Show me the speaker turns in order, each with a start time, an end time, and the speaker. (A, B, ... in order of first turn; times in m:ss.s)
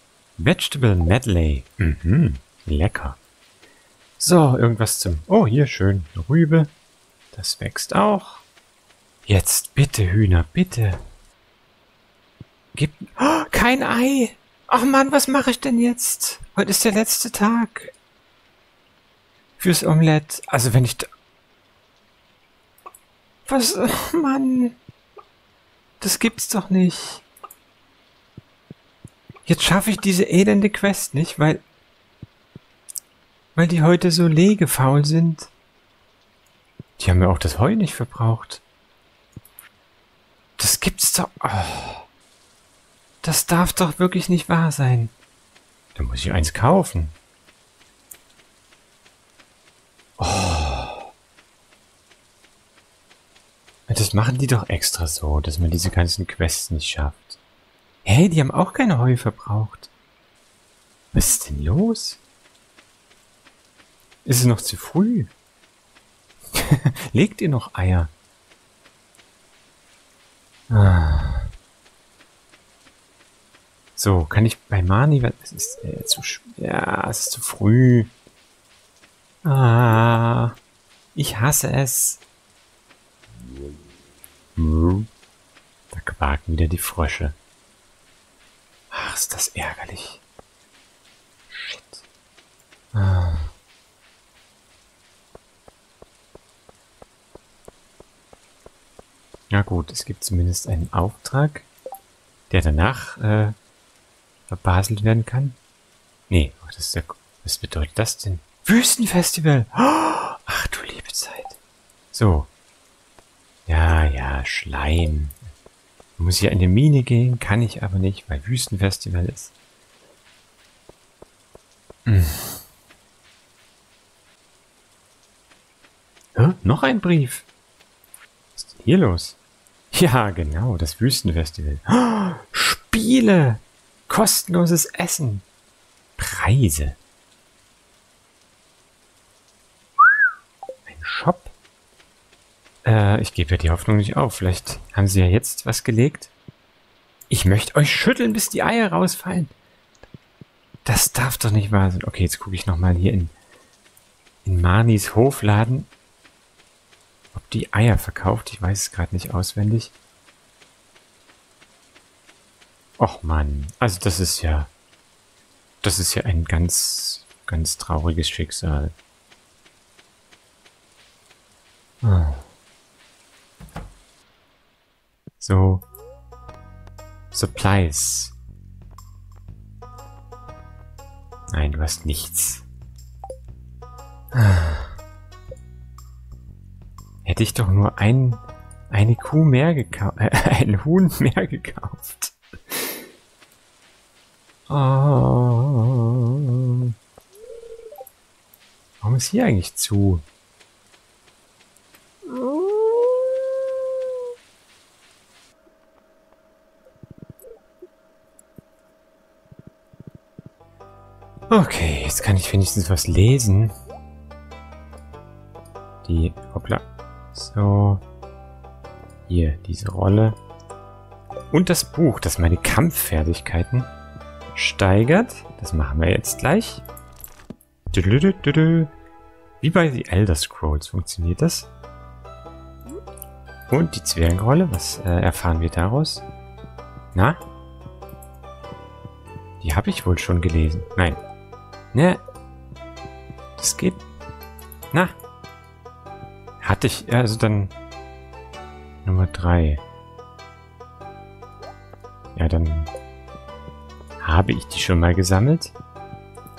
0:00.4-0:03.2 A
0:04.2-0:06.7 A
0:07.3-0:08.4 A
0:09.2-0:11.0 A
0:12.7-0:17.9 A
0:19.6-0:21.1 A
0:23.4-0:24.8 A
0:26.0-0:27.2 A
0:29.5-0:31.6 A
0:33.6-0:35.5 A
0:37.0-0:38.6 A
0:40.6-0:42.1 A
0:43.2-0:45.1 A
0:46.0-0:47.2 A
0:50.2-0:51.1 A
0:53.9-0:57.4 A
0:58.0-0:59.9 A
1:01.1-1:02.2 A
1:04.2-1:05.3 A
1:06.5-1:08.1 A
1:10.7-1:11.5 A
1:14.0-1:18.1 A
1:19.4-1:20.6 A
1:21.1-1:22.2 A
1:24.6-1:25.1 A
1:25.9-1:27.4 A
1:28.9-1:30.2 A
1:31.5-1:32.0 A
1:32.9-1:33.5 A
1:39.5-1:41.7 A
1:42.5-1:43.6 A
1:44.5-1:45.6 A
1:46.3-1:51.6 A
1:52.1-1:52.5 A
1:53.7-1:55.4 A
1:56.2-1:59.5 A
2:02.1-2:02.6 A
2:06.4-2:07.5 A
2:08.6-2:09.4 A
2:09.9-2:15.4 A
2:16.2-2:17.0 A
2:20.9-2:21.5 A
2:22.8-2:26.3 A
2:27.3-2:29.5 A
2:30.8-2:33.3 A
2:34.4-2:35.9 A
2:37.3-2:39.9 A
2:43.0-2:44.7 A
2:45.8-2:48.9 A
2:52.0-2:52.4 A
2:55.4-2:55.8 A
2:57.3-2:58.4 A
3:01.5-3:02.6 A
3:04.3-3:04.9 A
3:07.2-3:13.0 A
3:14.7-3:16.9 A
3:19.0-3:20.2 A
3:22.2-3:23.5 A
3:31.5-3:33.7 A
3:36.0-3:36.8 A
3:37.3-3:38.0 A
3:39.3-3:40.4 A
3:41.5-3:43.9 A
3:44.6-3:46.8 A
3:47.9-3:48.9 A
3:49.6-3:51.7 A
3:53.7-3:56.2 A
3:57.1-3:57.4 A
3:59.6-4:01.2 A
4:01.9-4:02.2 A
4:03.6-4:04.0 A
4:06.6-4:07.7 A
4:09.0-4:09.8 A
4:12.4-4:12.9 A
4:14.2-4:15.7 A